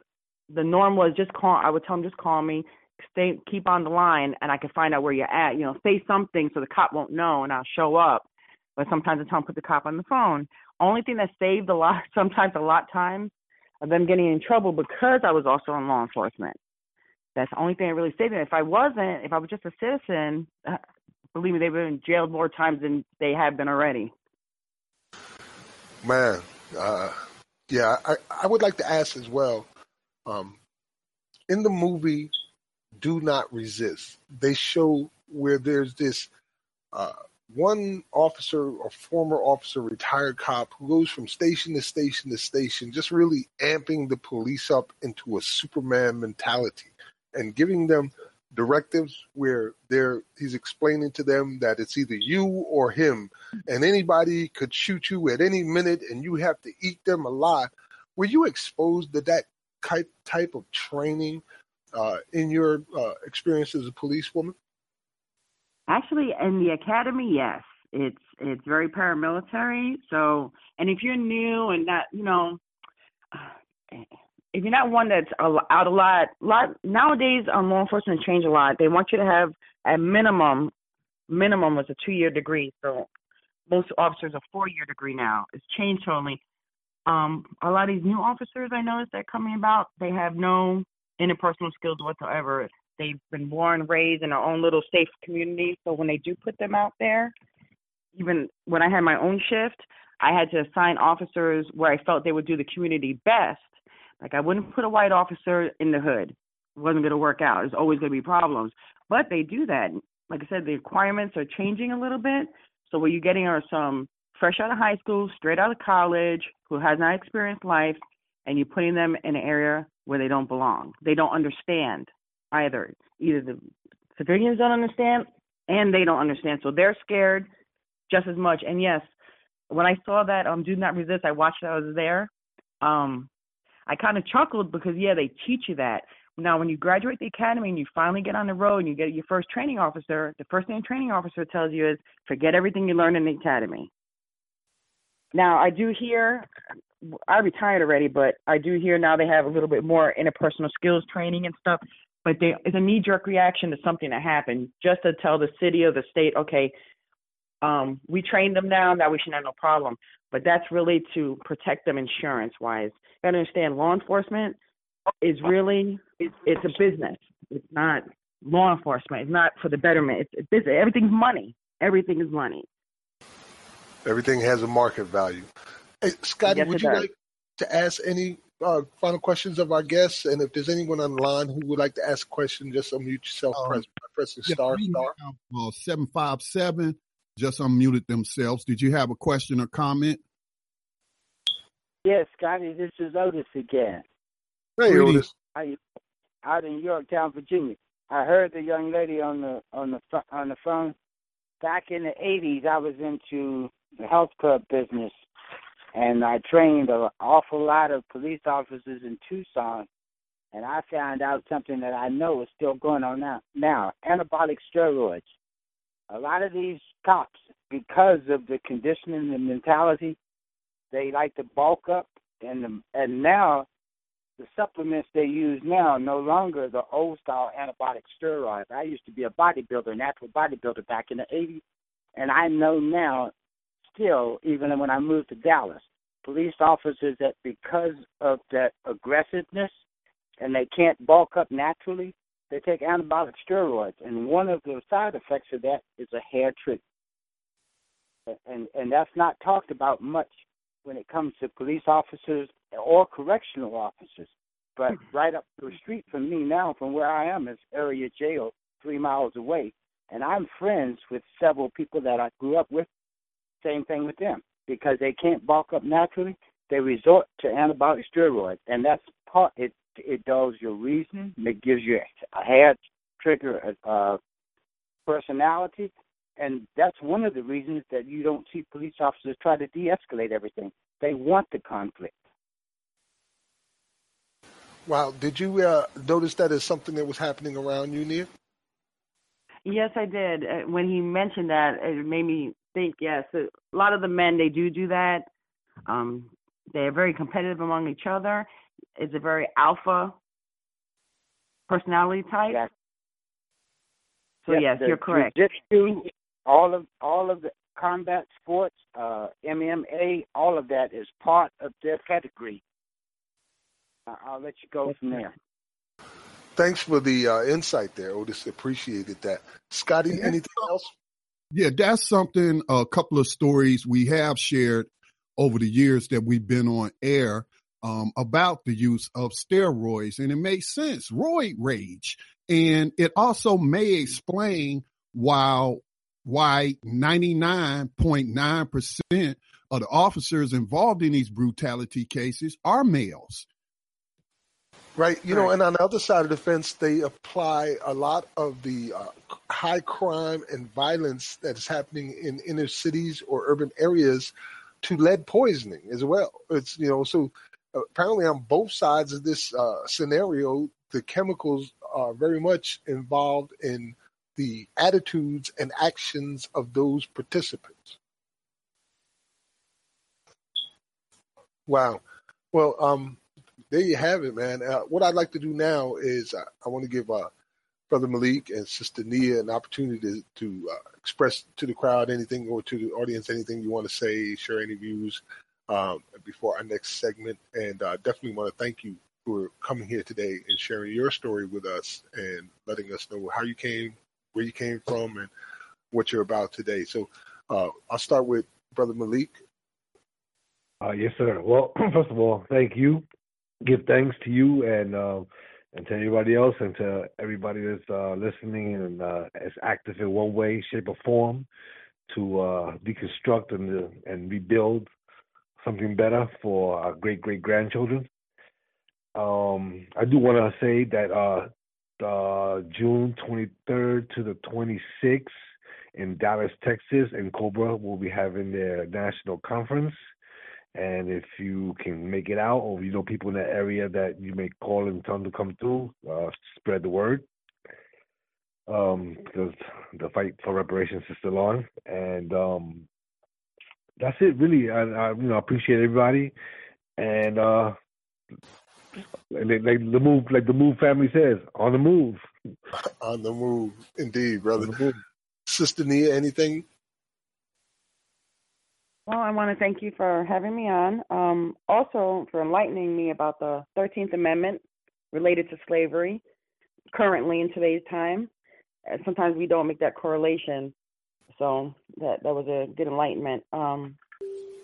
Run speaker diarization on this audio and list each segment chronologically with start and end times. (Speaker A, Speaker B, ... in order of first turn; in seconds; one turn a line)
Speaker A: 0.5-8.3
Speaker A: 8.8-16.6
Speaker A: 17.4-20.8
Speaker A: 21.4-24.1
Speaker B: 26.0-29.7
Speaker B: 30.3-30.6
Speaker B: 31.5-32.3
Speaker B: 33.0-36.3
Speaker B: 36.9-61.4
Speaker B: 61.9-64.5
Speaker A: 65.9-72.6
Speaker A: 73.3-80.7
Speaker A: 81.3-83.1
Speaker A: 83.7-86.4
Speaker A: 87.1-97.3
Speaker A: 98.2-123.6
Speaker A: 124.2-127.5
Speaker A: 128.1-129.1
Speaker A: 129.7-132.3
Speaker A: 132.8-133.3
Speaker A: 133.9-143.9
Speaker A: 145.3-146.5
Speaker A: 147.0-156.7
Speaker A: 157.6-164.6
Speaker A: 165.2-172.7
Speaker B: 174.1-175.5
Speaker B: 176.0-185.1
Speaker A: 176.5-177.1
Speaker C: 183.5-183.8
Speaker C: 184.5-190.2
Speaker D: 192.0-194.1
Speaker B: 194.8-195.3
Speaker C: 194.9-195.3
Speaker D: 196.4-200.9
Speaker D: 201.6-205.1
Speaker D: 205.9-209.9
Speaker D: 210.5-215.3
Speaker D: 216.1-220.2
Speaker D: 220.9-223.7
Speaker D: 224.4-231.6
Speaker D: 232.2-233.3
Speaker D: 233.9-239.7
Speaker D: 240.4-246.8
Speaker D: 248.3-262.9
Speaker D: 263.6-274.2
Speaker D: 275.1-282.1
Speaker B: 284.9-288.3
Speaker A: 289.7-295.3
Speaker A: 295.9-300.2
Speaker A: 301.7-302.6
Speaker A: 304.4-305.4
Speaker D: 304.5-312.6
Speaker D: 314.1-315.3
Speaker B: 316.6-320.9
Speaker C: 321.5-324.9
Speaker C: 325.4-343.5
Speaker B: 345.0-368.0
Speaker B: 371.7-372.0
Speaker B: 372.5-373.2
Speaker B: 373.7-377.3
Speaker B: 377.9-395.3
Speaker B: 395.9-399.4
Speaker E: 400.8-403.1
Speaker E: 403.6-411.5
Speaker E: 412.1-414.9
Speaker E: 415.6-418.1
Speaker E: 419.2-425.3
Speaker E: 425.9-430.0
Speaker E: 430.8-437.3
Speaker E: 438.7-442.9
Speaker E: 444.0-446.3
Speaker E: 447.0-447.8
Speaker E: 449.3-452.2
Speaker B: 453.0-454.9
Speaker E: 454.6-454.9
Speaker B: 455.5-456.6
Speaker A: 459.1-466.2
Speaker A: 466.9-468.3
Speaker A: 468.9-470.7
Speaker A: 471.3-474.0